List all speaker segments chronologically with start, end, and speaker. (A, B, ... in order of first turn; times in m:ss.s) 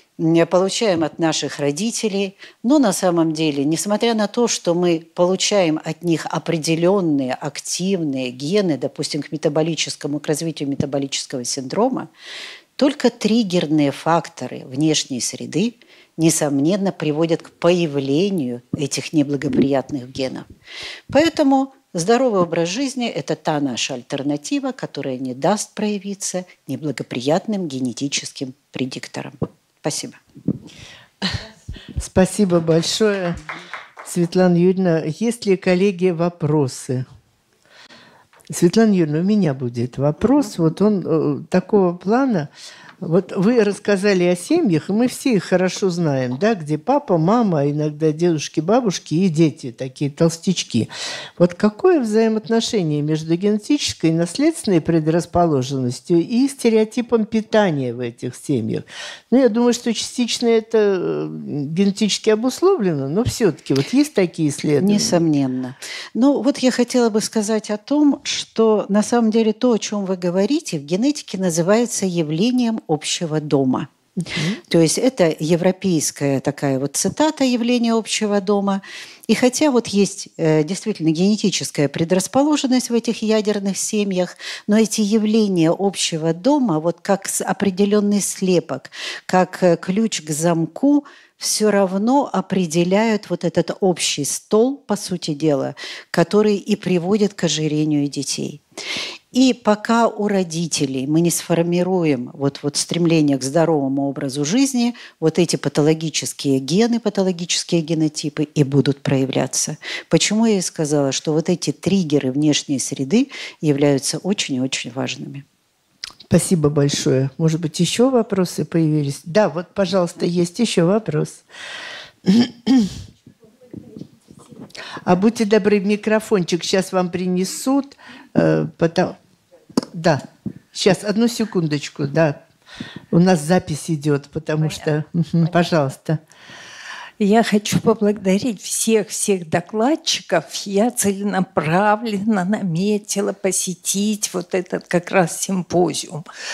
0:00.2-0:12.1 A
0:12.8-0:20.5 A
0:21.1-0:30.2 A
0:32.0-0:33.4 B
0:34.0-0:37.0 B
0:38.5-0:42.5 B
0:43.0-1:05.2 B
1:04.8-1:13.9 A
1:14.3-1:14.6 B
1:14.7-1:38.6 A
1:39.3-1:55.4 A
1:56.3-2:01.4 B
2:02.3-2:03.0 B
2:05.0-2:09.2 B
2:09.9-2:10.2 B
2:10.7-2:12.4 B
2:13.1-2:16.2 B
2:17.2-2:26.3 C